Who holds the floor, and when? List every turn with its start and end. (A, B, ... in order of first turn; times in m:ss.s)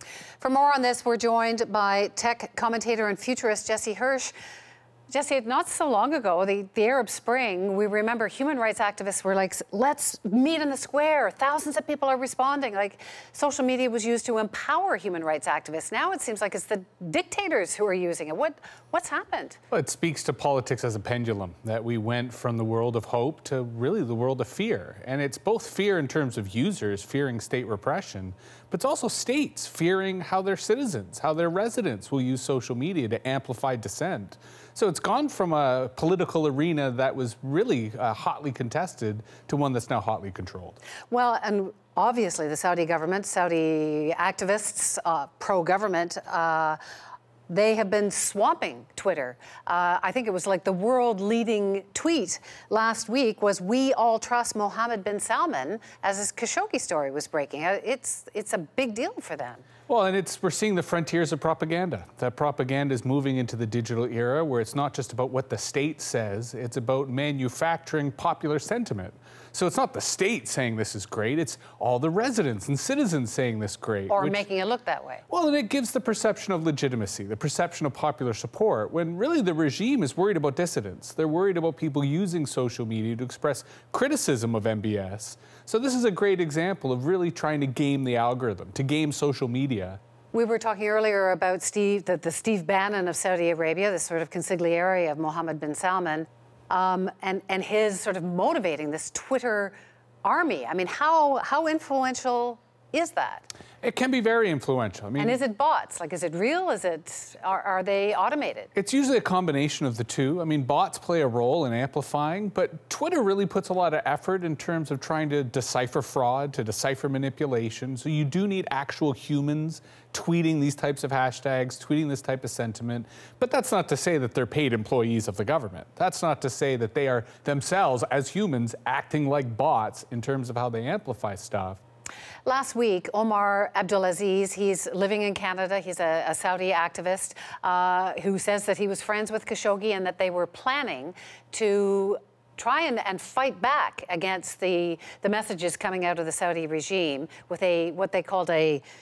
0:00.4-0:04.3 A
0:05.1-0:19.6 A
0:19.7-0:40.7 B
0:41.1-0:46.8 A
0:47.5-0:59.6 A
0:59.9-1:14.4 B
1:14.1-1:15.2 A
1:15.3-1:30.0 B
1:30.3-1:43.5 A
1:43.8-1:45.4 B
1:45.2-1:48.7 A
1:48.7-2:11.8 B
2:12.4-2:28.8 A